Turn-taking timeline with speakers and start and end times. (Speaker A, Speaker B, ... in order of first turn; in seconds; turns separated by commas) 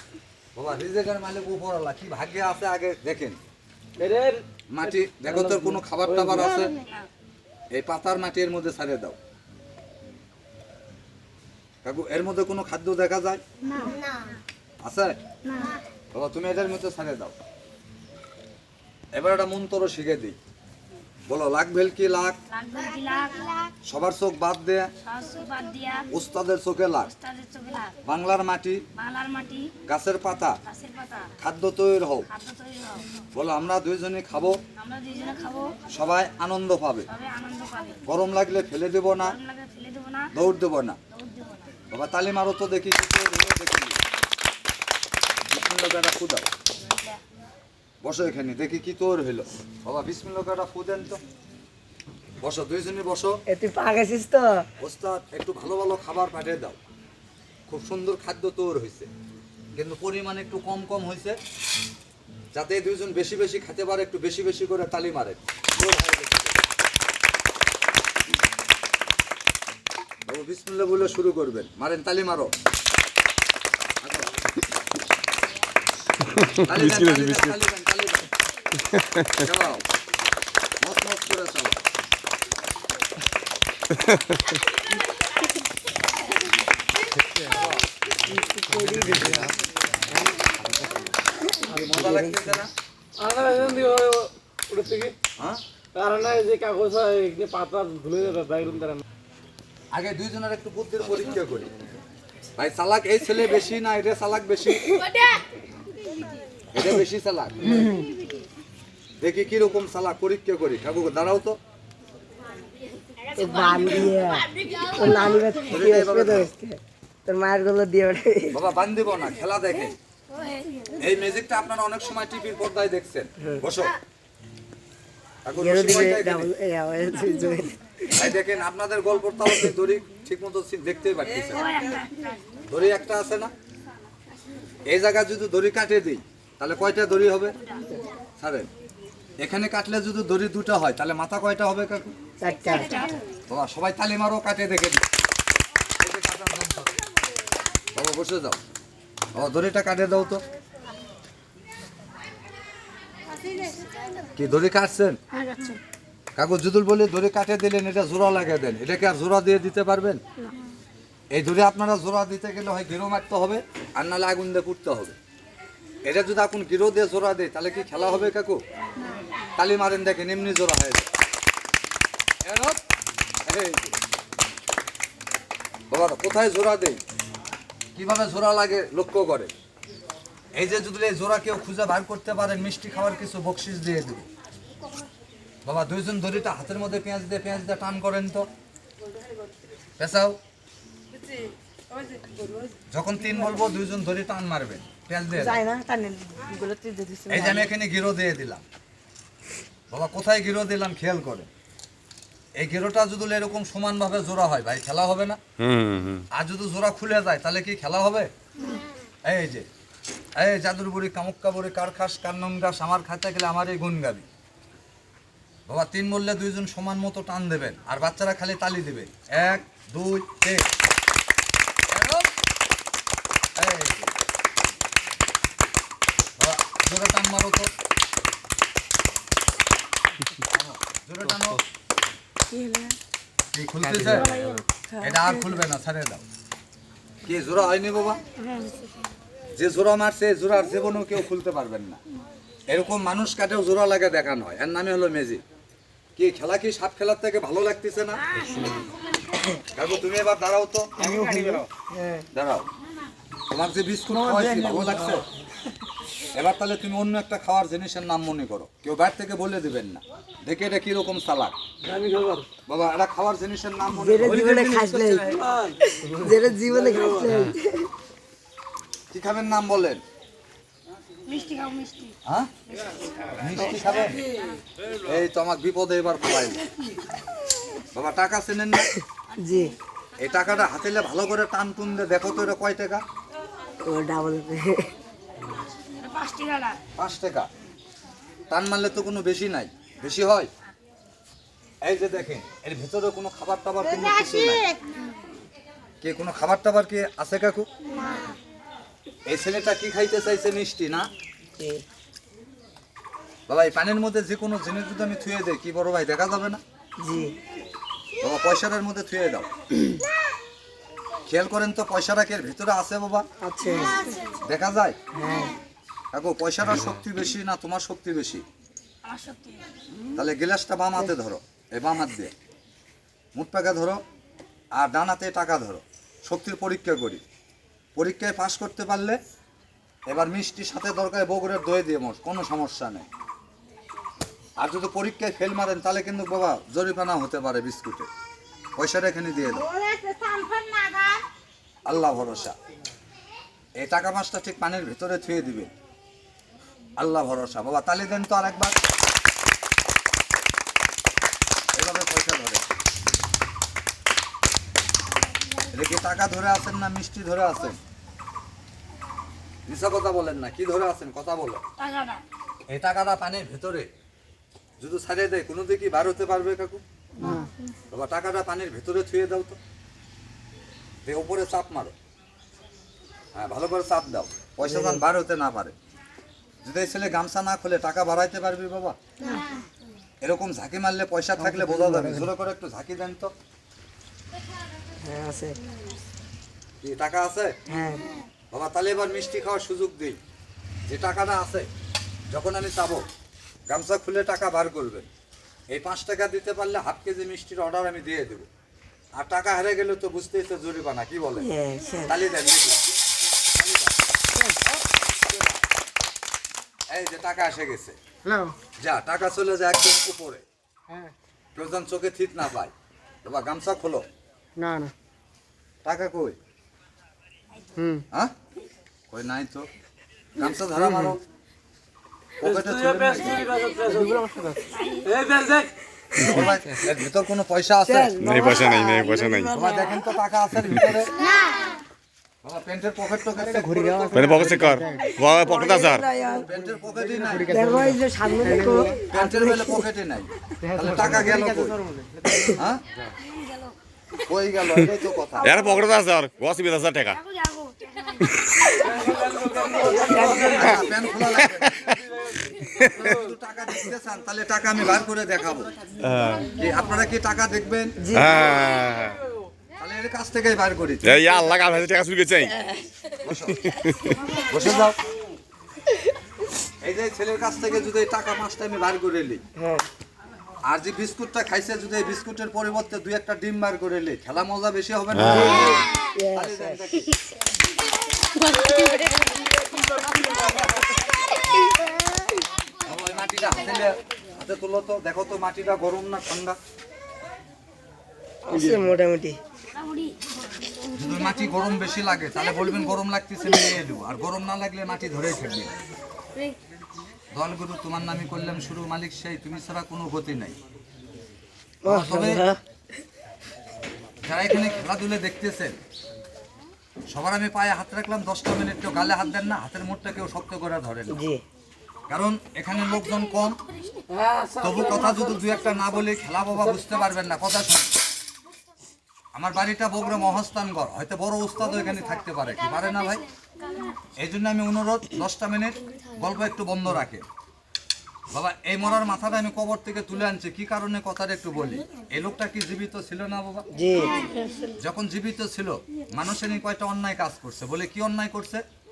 Speaker A: 0.6-3.4, Speaker B: 4.0-6.7, Speaker A: 4.7-6.7, Speaker C: 6.8-7.1, Speaker A: 7.7-9.2, Speaker A: 11.8-13.4, Speaker C: 13.7-14.0, Speaker A: 14.8-15.2, Speaker A: 16.1-17.3, Speaker A: 19.1-20.4, Speaker A: 21.3-22.4, Speaker C: 22.5-23.7, Speaker A: 23.8-24.9, Speaker C: 25.0-26.1, Speaker A: 26.1-27.1, Speaker C: 27.1-27.9, Speaker A: 28.1-28.8, Speaker C: 29.0-29.7, Speaker A: 29.8-30.6, Speaker C: 30.7-31.3, Speaker A: 31.4-32.3, Speaker C: 32.3-33.1, Speaker A: 33.3-34.6, Speaker C: 34.8-35.8, Speaker A: 35.9-37.1, Speaker C: 37.1-38.0, Speaker A: 38.1-39.4, Speaker C: 39.2-40.3, Speaker A: 40.3-41.0, Speaker C: 41.1-41.7, Speaker A: 41.9-44.0, Speaker A: 45.5-46.5, Speaker A: 48.0-51.2, Speaker A: 52.4-53.4, Speaker D: 53.5-54.6, Speaker A: 54.8-56.8, Speaker A: 57.7-59.1, Speaker A: 59.8-61.4, Speaker A: 62.5-66.6, Speaker A: 70.3-72.5, Speaker A: 74.0-74.3, Speaker E: 76.3-77.6, Speaker A: 76.6-78.3, Speaker E: 78.8-79.4, Speaker A: 79.4-79.8, Speaker A: 80.8-81.8, Speaker A: 87.5-87.8, Speaker D: 88.3-89.5, Speaker A: 91.7-92.7, Speaker D: 91.7-92.6, Speaker B: 93.2-95.2, Speaker B: 95.9-99.0, Speaker A: 99.9-101.7, Speaker A: 102.6-105.0, Speaker A: 106.7-107.9, Speaker D: 107.6-108.1, Speaker A: 109.2-111.6, Speaker C: 113.3-114.1, Speaker D: 113.3-118.6, Speaker A: 115.7-116.5, Speaker A: 118.5-120.0, Speaker C: 120.4-120.6, Speaker A: 121.0-123.9, Speaker D: 123.4-123.7, Speaker A: 125.4-126.5, Speaker D: 125.6-127.8, Speaker A: 128.1-131.7, Speaker C: 131.5-132.4, Speaker A: 132.7-133.5, Speaker A: 134.8-137.6, Speaker A: 138.4-138.7, Speaker A: 139.4-142.1, Speaker D: 142.4-143.0, Speaker C: 142.7-143.1, Speaker A: 143.5-145.0, Speaker A: 146.0-147.0, Speaker A: 147.9-148.6, Speaker A: 149.3-150.4, Speaker A: 154.3-155.2, Speaker C: 155.3-155.8, Speaker A: 156.3-160.2, Speaker A: 161.3-165.2, Speaker A: 166.1-168.6, Speaker A: 169.6-171.1, Speaker A: 172.4-172.8, Speaker A: 173.5-173.9, Speaker A: 175.9-177.0, Speaker A: 178.0-179.5, Speaker A: 180.6-184.3, Speaker A: 185.7-188.5, Speaker A: 190.0-190.4, Speaker A: 192.9-195.6, Speaker D: 195.4-197.7, Speaker A: 197.3-198.6, Speaker A: 199.9-201.5, Speaker A: 202.6-205.4, Speaker E: 205.6-206.2, Speaker A: 206.3-208.3, Speaker A: 209.2-209.7, Speaker A: 210.4-214.3, Speaker A: 215.7-220.7, Speaker A: 221.9-222.3, Speaker A: 223.6-224.1, Speaker A: 226.4-227.7, Speaker A: 230.5-231.6, Speaker D: 232.6-232.9, Speaker A: 233.5-234.3, Speaker D: 233.9-235.5, Speaker A: 235.0-236.2, Speaker A: 237.2-238.2, Speaker A: 239.5-242.0, Speaker A: 242.7-245.4, Speaker A: 246.2-248.2, Speaker A: 249.7-251.7, Speaker D: 251.0-252.3, Speaker A: 252.3-252.7, Speaker A: 253.5-255.2, Speaker D: 254.2-255.1, Speaker B: 254.3-254.9, Speaker A: 256.3-261.6, Speaker B: 261.8-262.5, Speaker A: 262.6-265.0, Speaker D: 263.9-265.4, Speaker B: 264.3-267.5, Speaker D: 266.0-267.9, Speaker A: 269.1-270.0, Speaker C: 271.2-272.1, Speaker A: 273.4-274.2, Speaker A: 275.1-276.7, Speaker A: 277.9-278.9, Speaker D: 279.4-279.7, Speaker A: 280.2-283.0, Speaker D: 283.9-284.9, Speaker C: 286.0-286.8, Speaker A: 287.0-287.5, Speaker A: 288.5-290.5, Speaker A: 291.8-294.7, Speaker A: 296.0-297.7, Speaker A: 299.3-301.1, Speaker D: 301.6-301.8, Speaker A: 303.5-306.6, Speaker D: 307.0-307.4, Speaker A: 308.2-309.5, Speaker A: 311.3-313.2, Speaker D: 313.4-314.0, Speaker A: 314.4-315.0, Speaker D: 315.1-315.6, Speaker A: 316.1-318.4, Speaker C: 319.1-319.6, Speaker A: 320.1-322.3, Speaker A: 323.4-324.0, Speaker A: 324.8-327.2, Speaker A: 327.9-329.2, Speaker A: 330.1-333.1, Speaker A: 334.6-338.1, Speaker A: 338.8-339.7, Speaker C: 339.8-341.0, Speaker A: 341.9-342.6, Speaker A: 343.8-345.7, Speaker A: 347.0-348.8, Speaker A: 351.7-352.6, Speaker A: 355.7-357.8, Speaker A: 359.6-361.6, Speaker C: 361.8-362.2, Speaker A: 362.7-363.9, Speaker A: 364.8-366.8, Speaker A: 367.9-369.6, Speaker A: 371.0-371.9, Speaker A: 373.3-375.7, Speaker D: 374.6-375.0, Speaker A: 376.6-379.0, Speaker A: 380.2-383.3, Speaker B: 381.4-382.2, Speaker D: 385.0-385.6, Speaker A: 386.8-387.6, Speaker D: 387.7-388.1, Speaker A: 388.5-390.2, Speaker A: 390.9-391.7, Speaker A: 392.3-393.1, Speaker A: 393.7-395.1, Speaker A: 395.7-398.5, Speaker A: 399.2-401.5, Speaker D: 401.4-402.1, Speaker A: 402.1-402.8, Speaker A: 403.6-403.9, Speaker A: 404.6-405.6, Speaker A: 406.9-408.0, Speaker B: 408.2-408.5, Speaker A: 408.8-410.4, Speaker A: 411.6-412.7, Speaker A: 413.2-414.1, Speaker B: 414.6-414.9, Speaker A: 415.8-416.4, Speaker A: 419.1-419.7, Speaker A: 420.4-421.2, Speaker B: 420.8-421.1, Speaker A: 422.4-423.5, Speaker B: 422.4-425.7, Speaker C: 424.8-425.1, Speaker A: 426.2-428.1, Speaker D: 427.9-430.0, Speaker E: 428.2-429.5, Speaker A: 429.5-431.1, Speaker A: 432.4-434.4, Speaker B: 433.4-435.1, Speaker E: 434.1-436.1, Speaker D: 435.2-436.5, Speaker A: 436.3-437.6, Speaker B: 436.9-439.1, Speaker D: 437.5-439.9, Speaker A: 439.1-441.8, Speaker B: 440.6-442.5, Speaker A: 442.5-442.8, Speaker C: 443.2-443.7, Speaker A: 444.2-445.6, Speaker D: 445.4-445.8, Speaker E: 445.4-447.2, Speaker C: 447.1-448.8, Speaker B: 448.8-450.7, Speaker D: 449.9-451.2, Speaker A: 450.6-451.7, Speaker E: 451.6-451.9, Speaker B: 451.9-452.6, Speaker E: 452.7-453.1, Speaker A: 452.8-455.7, Speaker E: 456.0-456.5, Speaker A: 456.5-458.0, Speaker D: 458.0-458.5, Speaker E: 458.1-459.2, Speaker A: 459.8-461.8, Speaker E: 461.0-462.7, Speaker A: 463.2-463.6, Speaker E: 463.5-464.2, Speaker A: 464.4-465.0, Speaker A: 466.8-469.4, Speaker D: 469.6-469.9, Speaker A: 470.7-477.1, Speaker E: 475.1-475.6, Speaker D: 475.6-476.9, Speaker A: 482.9-486.6, Speaker D: 488.5-489.4, Speaker C: 489.7-490.2, Speaker A: 490.9-495.7, Speaker A: 497.3-500.6, Speaker D: 501.8-502.6, Speaker A: 501.9-502.4, Speaker A: 504.2-505.8, Speaker A: 507.1-511.2, Speaker D: 511.1-511.4, Speaker A: 512.1-513.6, Speaker B: 514.1-515.5, Speaker A: 514.6-517.9, Speaker A: 519.4-523.2, Speaker A: 524.2-527.2, Speaker A: 528.3-533.7, Speaker D: 533.7-534.2, Speaker A: 534.8-538.6